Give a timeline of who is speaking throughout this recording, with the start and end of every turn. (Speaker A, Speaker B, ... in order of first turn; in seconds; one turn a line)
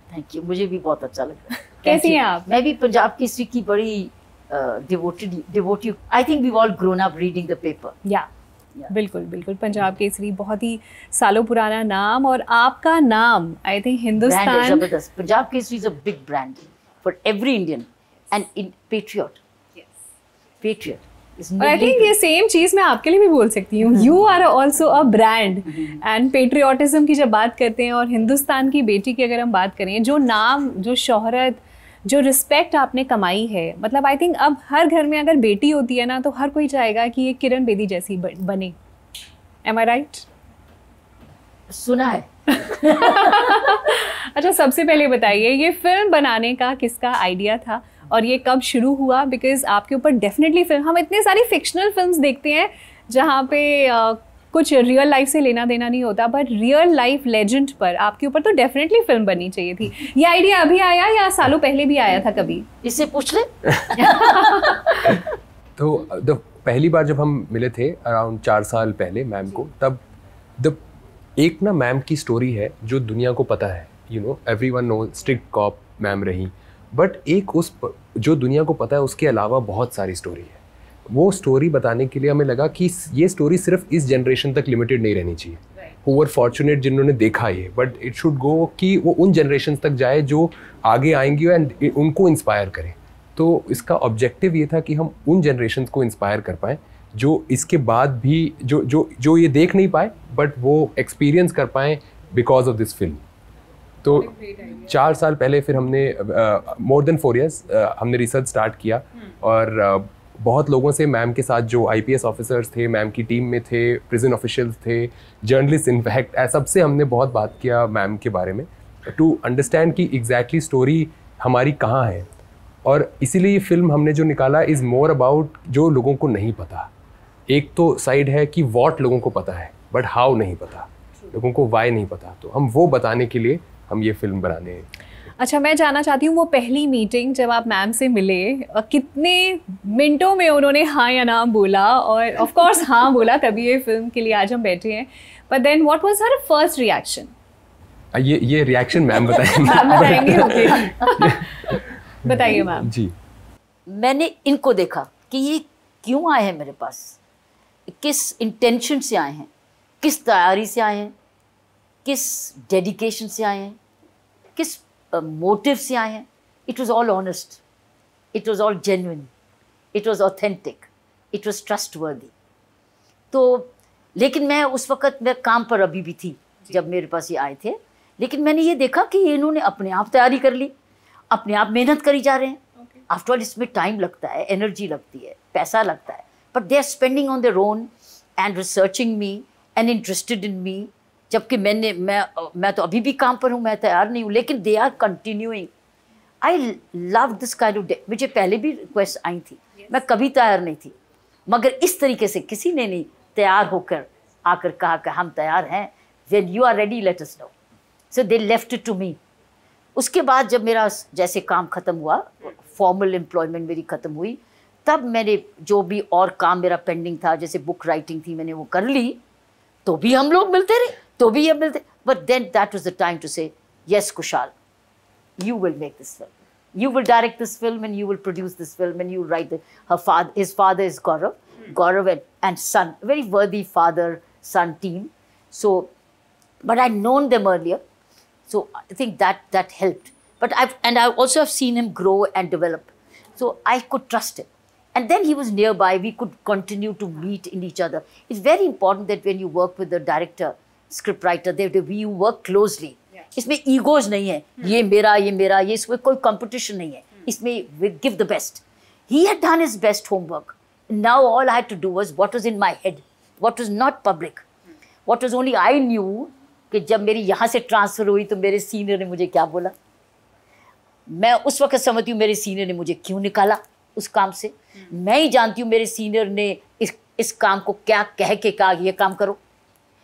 Speaker A: 0.1-8.0
Speaker B: 1.8-2.5
Speaker B: 8.9-14.9
Speaker A: 14.2-19.4
Speaker A: 20.6-22.1
Speaker B: 21.6-38.8
Speaker B: 39.6-40.3
Speaker A: 41.7-43.8
Speaker B: 42.7-62.6
Speaker A: 62.8-65.2
Speaker B: 64.0-64.7
Speaker C: 65.8-70.0
Speaker C: 71.4-103.2
Speaker C: 104.0-122.3
Speaker B: 104.3-104.8
Speaker C: 122.8-126.9
Speaker C: 127.5-134.9
Speaker B: 135.4-147.3
Speaker C: 148.1-153.1
Speaker B: 149.6-152.9
Speaker A: 150.6-151.2
Speaker A: 153.9-157.2
Speaker A: 157.9-159.5
Speaker A: 160.0-161.1
Speaker A: 162.0-163.8
Speaker A: 164.6-167.6
Speaker A: 168.3-169.3
Speaker A: 169.9-172.3
Speaker A: 173.3-180.7
Speaker A: 181.3-195.7
Speaker A: 196.4-200.9
Speaker A: 201.5-207.5
Speaker A: 208.1-209.2
Speaker A: 209.9-219.2
Speaker A: 219.8-224.5
Speaker A: 225.4-235.9
Speaker A: 236.6-237.8
Speaker A: 238.5-264.4
Speaker A: 265.1-269.7
Speaker A: 271.1-279.4